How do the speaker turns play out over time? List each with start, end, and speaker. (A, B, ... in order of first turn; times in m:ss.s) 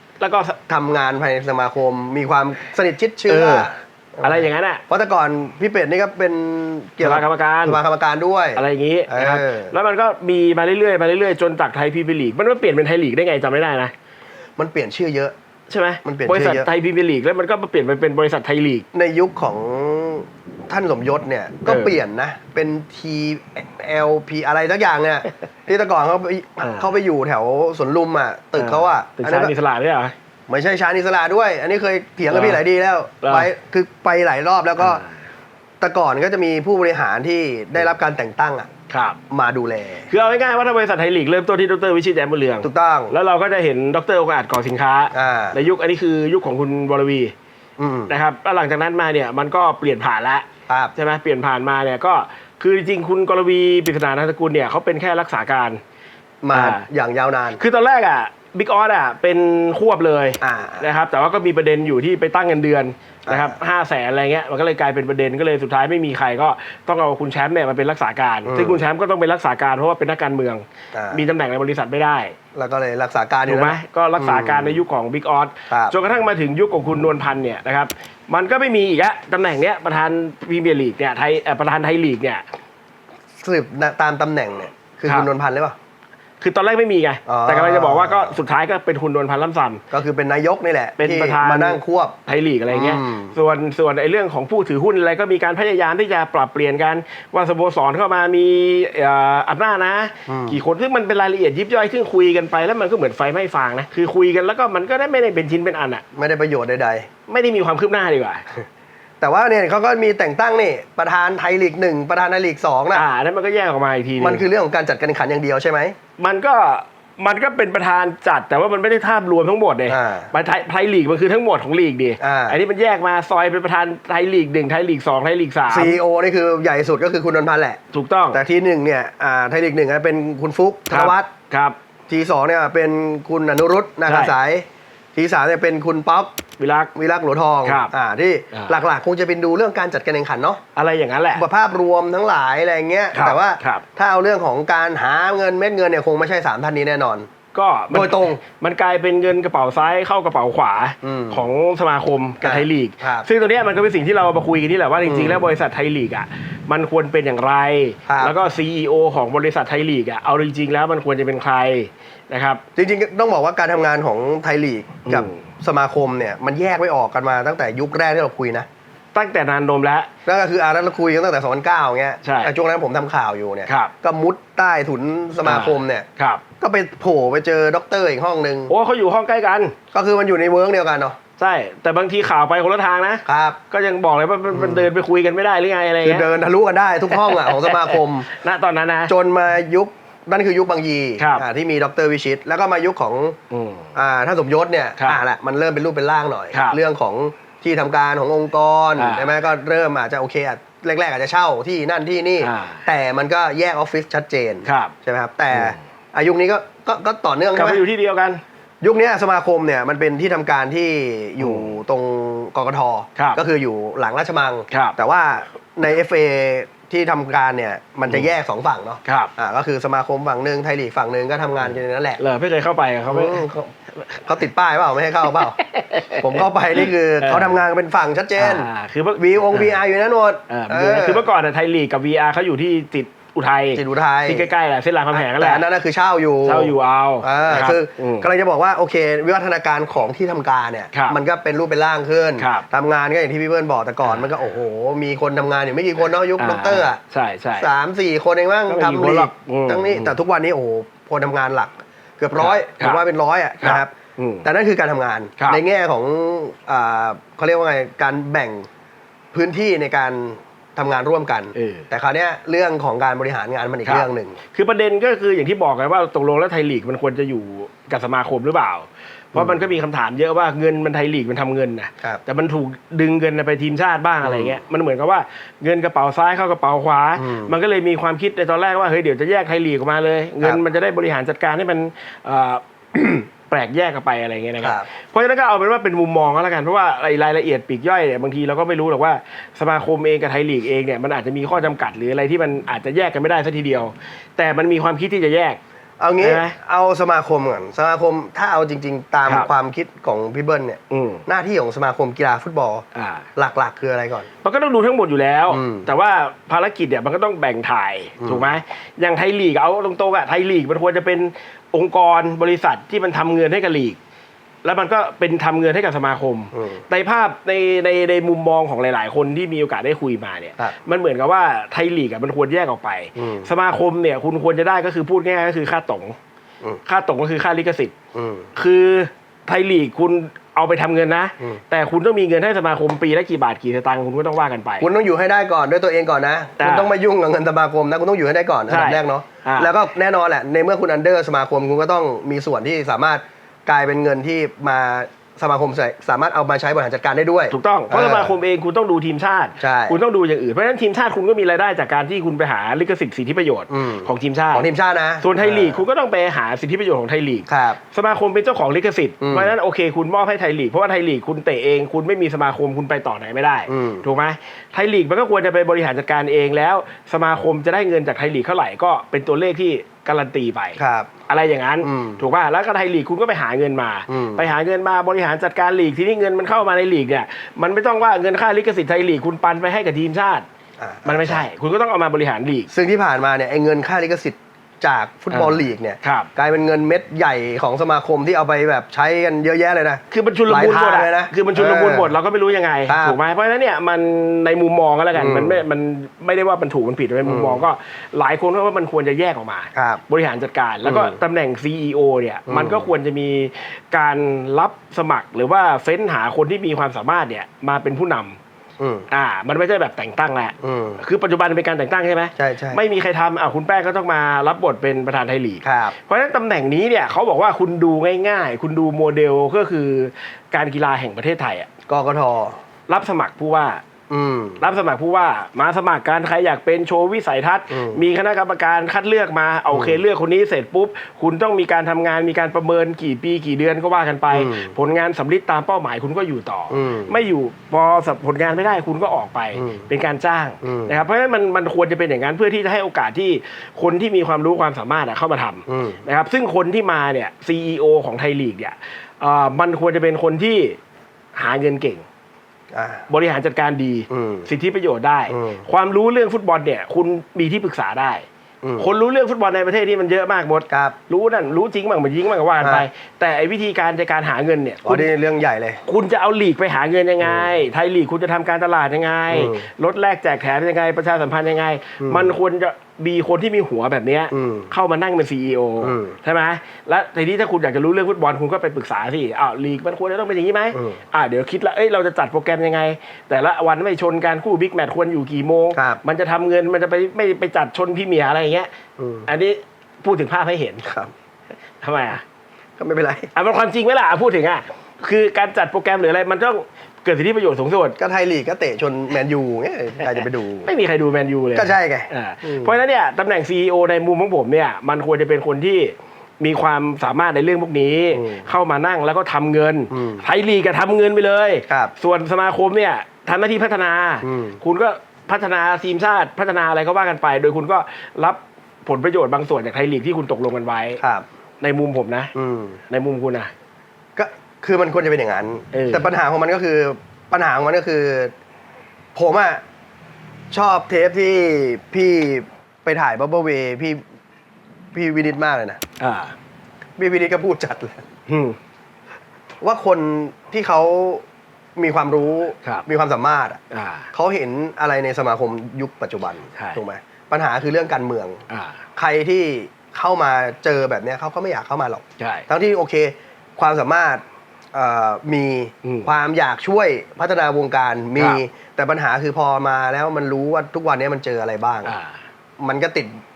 0:00.2-0:00.6 A
0:00.7-0:09.7 B
0:03.3-0:03.7 A
0:04.2-0:04.8 A
0:07.0-0:07.8 A
0:08.6-0:13.9 A
0:14.6-0:15.3 B
0:15.7-0:18.8 A
0:16.0-0:16.7 B
0:18.9-0:29.5 B
0:21.6-0:21.9 A
0:26.6-0:26.9 A
0:28.6-0:30.1 A
0:30.5-0:35.0 B
0:32.3-0:32.6 A
0:33.2-0:33.5 A
0:34.8-0:35.1 A
0:35.8-0:38.7 B
0:38.9-0:39.2 A
0:39.3-0:40.1 B
0:40.1-0:47.3 A
0:42.6-0:43.1 B
0:45.1-0:45.6 B
0:47.8-0:48.1 B
0:48.1-0:55.8 A
0:56.4-0:57.6 B
0:56.5-0:56.8 A
0:57.6-1:12.4 A
1:00.4-1:00.9 B
1:03.3-1:03.5 B
1:08.4-1:08.8 B
1:10.9-1:11.2 B
1:12.5-1:14.8 B
1:13.5-1:22.4 A
1:15.7-1:15.9 B
1:23.4-1:25.8 B
1:26.4-1:29.8 A
1:27.2-1:28.4 B
1:29.9-1:32.2 B
1:31.0-1:46.0 A
1:32.7-1:33.3 B
1:40.3-1:40.6 B
1:46.1-1:47.1 B
1:47.3-1:48.4 A
1:49.2-1:53.0 B
1:52.9-1:54.4 A
1:54.2-1:56.0 B
1:56.2-2:06.0 A
1:59.9-2:00.3 B
2:02.2-2:02.6 B
2:05.7-2:07.8 B
2:07.9-2:08.4 A
2:08.3-2:11.3 B
2:10.9-2:11.8 A
2:12.1-2:16.4 B
2:14.1-2:14.3 A
2:16.6-2:16.9 A
2:16.9-2:20.6 B
2:17.6-2:17.9 A
2:18.5-2:18.8 A
2:20.7-2:21.4 A
2:21.4-2:27.3 B
2:23.1-2:23.8 A
2:27.5-2:42.6 A
2:27.9-2:28.4 B
2:31.0-2:31.4 B
2:32.4-2:33.3 B
2:35.0-2:35.4 B
2:38.1-2:38.4 B
2:42.8-2:48.7 B
2:45.1-2:45.4 A
2:49.1-2:50.1 A
2:50.2-2:56.1 B
2:52.2-2:52.5 A
2:53.7-2:53.9 A
2:55.4-2:56.4 A
2:56.6-2:58.7 B
2:58.7-2:59.7 A
2:59.9-3:01.2 B
3:01.4-3:06.3 A
3:03.2-3:03.6 B
3:04.5-3:04.9 B
3:06.0-3:08.3 B
3:07.2-3:09.1 A
3:09.1-3:13.4 B
3:11.2-3:11.4 A
3:13.5-3:13.9 A
3:13.9-3:27.8 B
3:15.0-3:15.2 A
3:16.5-3:16.8 A
3:19.0-3:19.4 A
3:22.4-3:22.8 A
3:24.6-3:24.9 A
3:25.5-3:25.8 A
3:27.5-3:28.4 A
3:28.8-3:42.2 B
3:31.4-3:31.7 A
3:33.2-3:33.4 A
3:34.7-3:35.0 A
3:39.0-3:39.3 A
3:41.6-3:43.4 A
3:43.1-3:43.7 B
3:44.2-3:45.6 B
3:45.6-3:47.6 A
3:46.2-3:51.3 B
3:48.4-3:49.8 A
3:50.5-3:55.6 A
3:53.7-3:54.5 B
3:55.1-4:07.0 B
3:56.4-3:58.3 A
4:00.9-4:01.2 A
4:02.4-4:02.6 A
4:06.4-4:07.7 A
4:07.6-4:18.7 B
4:08.7-4:10.2 A
4:12.4-4:13.0 A
4:13.6-4:14.4 A
4:19.3-4:24.4 B
4:21.5-4:21.9 A
4:23.8-4:55.6 A
4:29.3-4:29.6 B
4:34.2-4:34.6 B
4:37.2-4:37.5 B
4:44.6-4:44.8 B
4:56.0-5:02.8 B
4:56.2-4:56.5 A
5:00.9-5:01.2 A
5:02.9-5:03.2 A
5:03.4-5:04.3 B
5:04.4-5:14.0 A
5:05.5-5:05.9 B
5:08.2-5:08.5 B
5:14.6-5:26.2 A
5:16.5-5:16.8 B
5:23.2-5:23.5 B
5:26.8-5:27.9 A
5:28.1-5:28.5 B
5:28.6-5:34.9 A
5:34.8-5:48.3 B
5:36.6-5:36.9 A
5:38.7-5:39.7 A
5:47.5-5:54.7 A
5:49.6-5:50.0 B
5:53.7-5:55.8 B
5:55.2-6:20.4 A
5:57.5-5:57.8 B
5:59.2-5:59.5 B
6:03.7-6:04.0 B
6:10.8-6:11.1 B
6:11.8-6:12.2 B
6:14.1-6:14.4 B
6:20.8-6:21.4 B
6:21.0-6:22.7 A
6:22.7-6:32.1 B
6:25.3-6:26.3 A
6:30.1-6:48.4 A
6:32.9-6:33.2 B
6:35.1-6:35.6 B
6:37.2-6:37.6 B
6:39.7-6:40.0 B
6:40.8-6:41.2 B
6:42.5-6:42.9 B
6:48.8-6:49.1 B
6:49.1-7:01.7 A
6:50.6-6:51.0 B
6:52.4-6:52.8 B
6:55.6-6:55.9 B
7:01.9-7:02.6 B
7:02.9-7:03.8 A
7:04.1-7:04.6 B
7:04.6-7:30.8 A
7:07.7-7:08.0 B
7:09.7-7:10.0 B
7:14.3-7:14.7 B
7:16.7-7:17.1 B
7:19.5-7:19.9 B
7:20.6-7:20.9 B
7:25.7-7:26.0 B
7:31.3-7:32.0 A
7:32.7-7:33.0 B
7:33.1-7:38.2 A
7:34.1-7:34.5 B
7:35.3-7:35.6 B
7:38.6-7:38.9 B
7:38.8-7:45.1 A
7:40.7-7:41.0 B
7:42.6-7:42.8 B
7:44.8-7:45.8 B
7:45.8-8:08.7 A
7:47.2-7:47.5 B
7:49.3-7:49.7 B
7:52.0-7:52.3 B
7:54.3-7:54.7 B
7:55.8-7:56.1 B
8:00.7-8:01.0 B
8:05.7-8:06.0 B
8:09.0-8:09.3 B
8:09.3-8:10.8 A
8:10.8-8:11.1 B
8:11.8-8:12.2 A
8:12.8-8:13.3 B
8:13.3-8:18.0 A
8:18.0-8:20.7 B
8:20.7-8:41.0 A
8:21.5-8:22.7 B
8:28.1-8:28.5 B
8:29.9-8:30.2 B
8:34.2-8:34.6 B
8:41.0-8:41.2 B
8:41.6-8:42.3 A
8:42.3-8:42.8 B
8:42.9-8:43.5 A
8:44.2-8:48.3 B
8:45.7-8:46.1 A
8:49.1-8:49.6 B
8:50.5-8:54.0 B
8:54.9-8:55.8 B
8:56.0-8:56.4 A
8:57.0-8:58.0 B
8:58.3-8:58.6 A
8:59.6-9:01.2 B
9:01.8-9:03.6 B
9:03.7-9:04.1 A
9:04.1-9:08.4 B
9:06.6-9:06.8 A
9:08.5-9:08.8 A
9:09.0-9:14.2 B
9:12.2-9:12.5 A
9:14.7-9:21.9 B
9:15.8-9:16.1 A
9:21.8-9:22.2 A
9:22.6-9:23.1 B